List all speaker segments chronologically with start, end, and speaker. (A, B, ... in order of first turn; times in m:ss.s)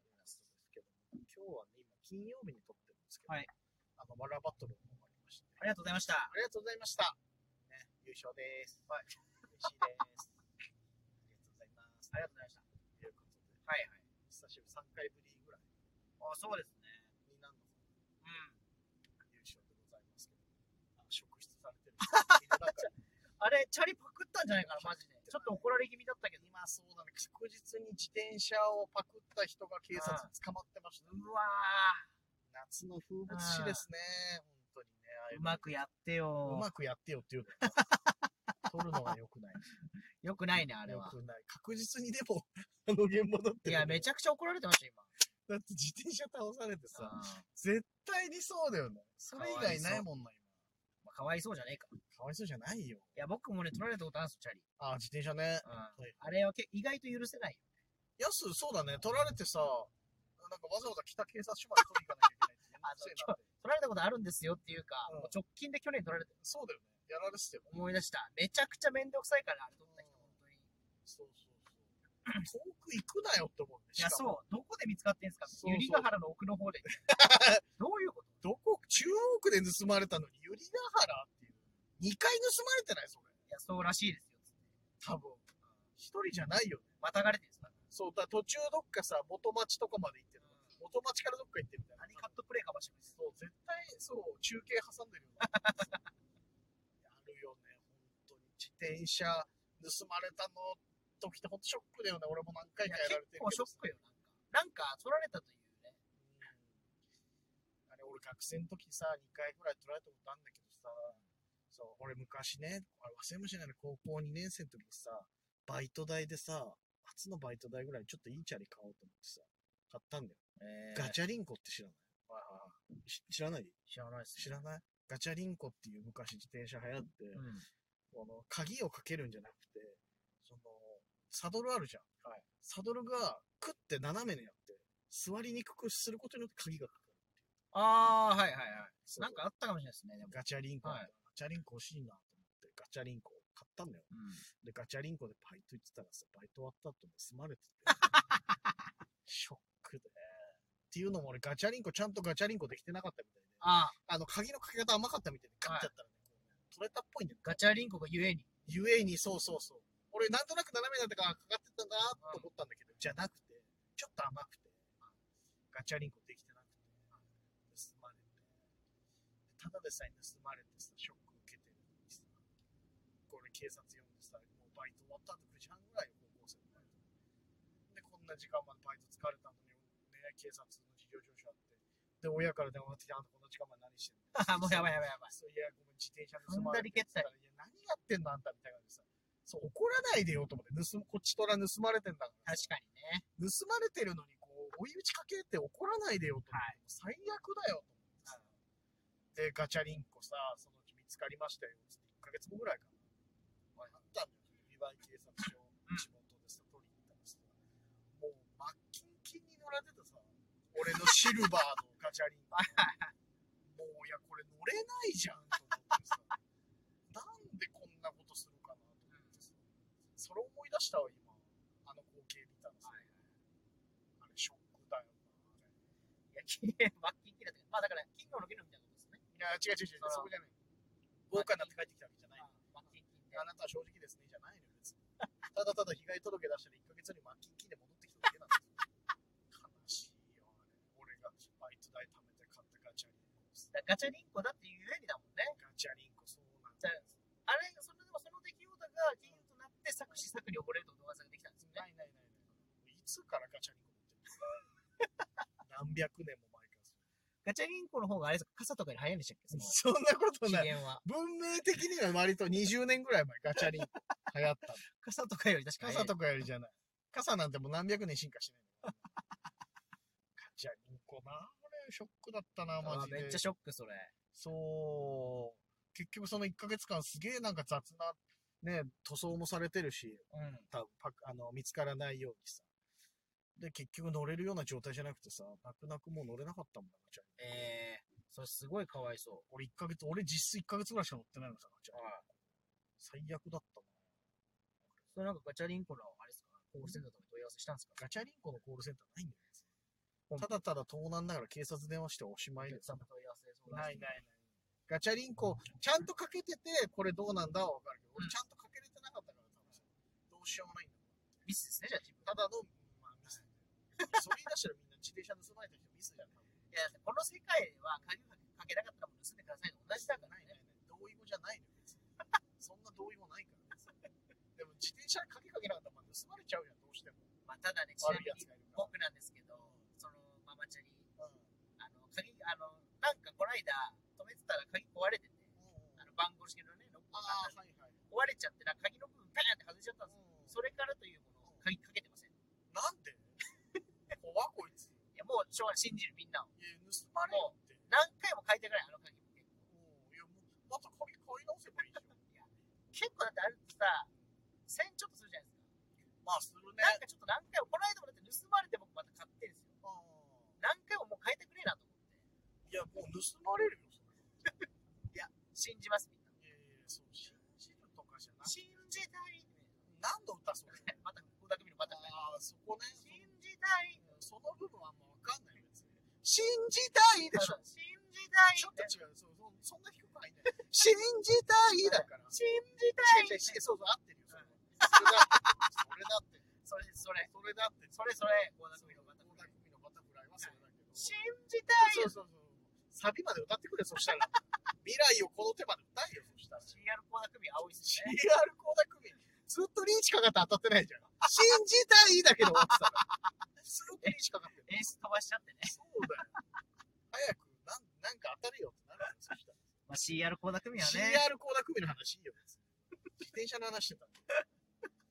0:00.1-0:03.4 A
0:04.0-0:05.6 A
0:05.6-0:06.3 B
0:06.3-0:08.9 A
0:08.9-0:09.1 B
0:09.4-0:10.3 A
0:11.3-0:12.2 A
0:12.1-0:12.6 B
0:13.0-0:13.6 A
0:13.7-0:14.0 B
0:14.3-0:15.7 A
0:16.2-0:17.1 B
0:17.2-0:17.8 A
0:18.2-0:18.6 B
0:19.2-0:20.4 A
0:21.0-0:22.9 A
0:22.0-0:26.4 B
0:24.6-0:25.8 A
0:26.4-0:31.2 A
0:29.9-0:30.3 B
0:31.0-0:32.0 B
0:32.5-0:35.7 A
0:33.3-0:33.8 B
0:35.3-0:36.7 B
0:36.4-0:37.8 A
0:37.7-0:38.2 B
0:38.6-0:39.7 A
0:40.2-0:41.2 B
0:40.8-0:44.1 A
0:43.6-0:45.1 B
0:45.5-0:50.4 A
0:46.9-0:47.4 B
0:49.3-0:50.0 B
0:51.0-0:52.0 B
0:52.1-0:53.1 A
0:53.1-0:54.6 B
0:54.8-0:56.2 A
0:55.6-0:57.6 B
0:58.2-1:03.4 A
1:02.8-1:06.3 B
1:05.1-1:05.3 A
1:06.4-1:07.7 A
1:07.7-1:10.7 B
1:09.8-1:10.3 A
1:11.0-1:14.3 A
1:14.0-1:18.4 B
1:15.4-1:16.1 A
1:16.9-1:17.6 A
1:18.4-1:23.3 A
1:23.5-1:24.6 B
1:25.0-1:25.4 A
1:26.0-1:26.9 A
1:27.0-1:27.8 B
1:27.9-1:32.3 A
1:30.4-1:30.8 B
1:32.0-1:33.2 B
1:33.1-1:36.0 A
1:35.4-1:36.0 B
1:37.0-1:43.8 A
1:42.8-1:46.0 B
1:46.2-1:46.7 A
1:47.9-1:51.2 A
1:51.7-2:00.4 A
2:00.6-2:01.2 B
2:00.9-2:03.7 A
2:03.9-2:04.6 B
2:04.3-2:07.4 A
2:07.3-2:07.6 B
2:08.1-2:17.2 A
2:17.7-2:21.1 B
2:19.1-2:19.4 A
2:20.3-2:28.0 A
2:24.1-2:24.4 B
2:27.9-2:28.7 B
2:29.2-2:37.6 A
2:33.6-2:34.0 B
2:35.6-2:35.9 B
2:37.4-2:38.5 B
2:38.6-2:44.8 A
2:42.2-2:42.5 B
2:45.7-2:47.0 A
2:47.7-2:48.5 A
2:49.5-2:52.4 A
2:53.3-2:57.0 A
2:57.9-3:12.7 A
3:04.3-3:05.3 B
3:06.4-3:07.3 B
3:12.4-3:13.2 B
3:13.4-3:18.5 A
3:16.5-3:16.8 B
3:19.3-3:22.9 A
3:23.9-3:27.5 A
3:28.1-3:32.8 A
3:32.5-3:33.1 B
3:33.6-3:36.4 A
3:37.1-3:39.6 A
3:39.1-3:39.4 B
3:40.2-3:43.0 A
3:42.8-3:43.3 B
3:44.2-3:45.6 A
3:46.3-3:49.2 B
3:49.3-3:50.5 A
3:50.0-3:50.3 B
3:51.3-3:52.5 A
3:51.3-3:51.7 B
3:52.4-3:53.4 B
3:53.3-3:55.0 A
3:55.5-3:58.8 A
3:59.5-4:03.7 A
4:03.7-4:05.6 B
4:05.5-4:07.1 A
4:06.8-4:11.8 B
4:11.6-4:14.6 A
4:15.6-4:16.9 A
4:17.4-4:19.8 B
4:19.5-4:24.8 A
4:20.4-4:21.0 B
4:24.9-4:26.1 B
4:25.8-4:29.0 A
4:30.4-4:33.4 A
4:32.8-4:34.1 B
4:34.3-4:42.6 A
4:40.3-4:40.7 B
4:43.6-4:47.7 A
4:47.4-4:49.5 B
4:49.5-4:52.4 A
4:51.9-4:52.2 B
4:53.0-4:53.9 A
4:55.1-4:58.0 B
4:58.0-4:59.6 A
5:00.3-5:03.0 A
5:02.6-5:04.2 B
5:03.7-5:04.3 A
5:04.9-5:11.1 A
5:11.4-5:12.3 B
5:12.2-5:13.6 A
5:14.0-5:14.3 B
5:14.1-5:16.5 A
5:16.7-5:20.6 B
5:19.9-5:22.0 A
5:22.6-5:23.8 A
5:24.6-5:27.3 A
5:27.4-5:31.1 B
5:28.0-5:28.9 A
5:29.5-5:29.8 A
5:31.2-5:31.4 A
5:31.8-5:37.5 B
5:35.6-5:36.0 A
5:37.1-5:37.9 A
5:38.1-5:42.3 B
5:40.1-5:40.5 A
5:42.7-5:43.4 A
5:44.1-5:44.9 A
5:45.1-5:46.5 B
5:46.6-5:47.8 A
5:47.2-5:49.6 B
5:49.7-5:52.1 A
5:52.2-5:54.1 B
5:54.7-5:55.6 B
5:56.2-5:57.0 A
5:56.8-5:59.7 B
5:59.8-6:00.5 A
6:00.6-6:02.1 B
6:02.6-6:04.3 A
6:05.1-6:06.3 B
6:06.4-6:08.6 A
6:08.4-6:09.8 B
6:09.8-6:10.9 A
6:10.7-6:12.2 B
6:11.8-6:13.3 A
6:12.9-6:14.0 B
6:14.0-6:17.6 A
6:17.3-6:19.0 B
6:18.6-6:22.4 A
6:21.8-6:23.6 B
6:23.0-6:26.4 A
6:24.3-6:25.5 B
6:26.6-6:27.3 B
6:27.2-6:28.0 A
6:27.9-6:29.5 B
6:28.7-6:31.1 A
6:30.4-6:32.1 B
6:31.8-6:36.8 A
6:36.6-6:38.2 B
6:37.8-6:43.0 A
6:42.5-6:43.2 B
6:43.6-6:44.8 A
6:44.0-6:45.8 B
6:45.6-6:46.3 A
6:47.1-6:49.7 A
6:49.9-6:51.2 B
6:50.8-6:54.4 A